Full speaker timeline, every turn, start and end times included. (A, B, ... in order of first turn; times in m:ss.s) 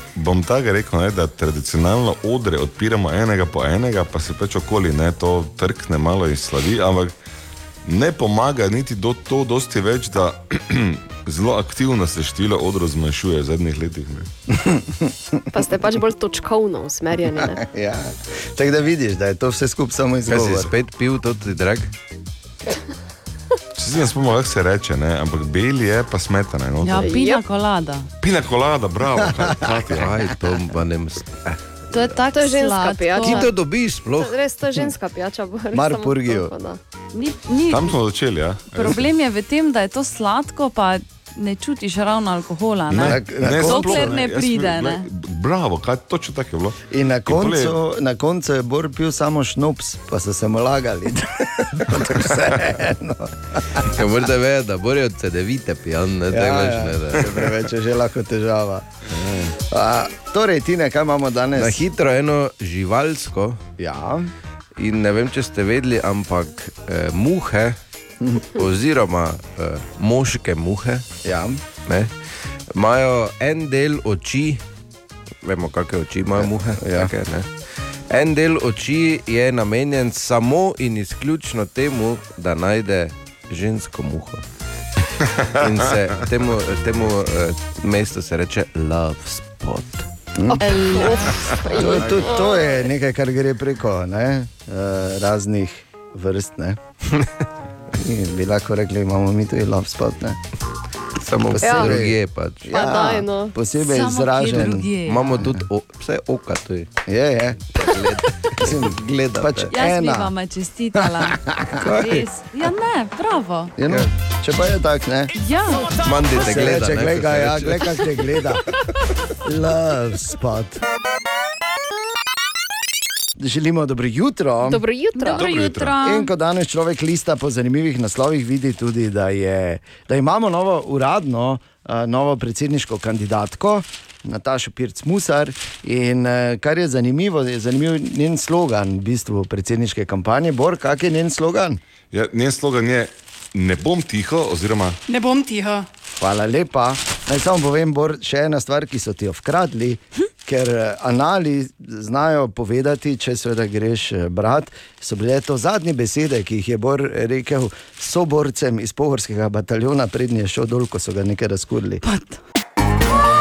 0:00.2-0:07.1 A
0:07.8-0:14.3 A
0:14.5-0:15.1 B
0:15.5-0:17.6 C
0:17.4-0:20.7 B
0:20.3-0:21.9 D
0:23.8-0:27.1 A
0:26.8-0:28.1 E
0:27.0-0:27.4 C
0:28.2-0:30.1 A
0:29.9-0:32.2 D
0:31.9-0:33.5 E
0:32.3-0:33.6 C
0:33.2-0:34.9 D
0:34.2-0:36.8 C
0:35.7-0:36.5 B
0:37.1-0:37.9 E
0:37.7-0:39.1 A
0:38.7-0:45.0 E
0:42.9-0:47.8 A
0:43.0-0:44.2 B
0:46.9-0:53.8 B
0:53.8-0:57.5 D
0:56.3-0:58.9 B
0:59.5-1:01.8 B
1:01.6-1:03.6 D
1:03.8-1:04.3 B
1:04.8-1:07.8 D
1:08.6-1:11.1 D
1:11.2-1:11.6 B
1:11.8-1:12.1 D
1:12.7-1:14.6 D
1:15.4-1:17.5 D
1:16.3-1:17.1 B
1:18.1-1:24.4 D
1:25.6-1:30.1 D
1:30.4-1:30.8 B
1:30.6-1:32.9 C
1:31.7-1:36.8 B
1:38.0-1:40.4 B
1:41.2-1:42.8 D
1:41.4-1:44.9 B
1:41.6-1:42.0 C
1:42.7-1:43.5 C
1:43.8-1:45.5 E
1:45.0-1:46.9 D
1:47.1-1:47.6 B
1:47.7-1:49.7 D
1:48.6-1:50.3 B
1:49.7-1:53.7 E
1:51.0-1:52.0 B
1:53.8-1:55.3 B
1:55.4-1:56.0 E
1:56.0-1:57.9 D
1:56.3-1:58.6 B
1:59.4-2:00.8 B
2:03.4-2:04.8 B
2:04.6-2:05.4 C
2:05.1-2:06.3 E
2:05.3-2:05.9 A
2:06.0-2:21.8 B
2:22.1-2:25.0 A
2:26.2-2:42.0 B
2:42.0-2:42.4 E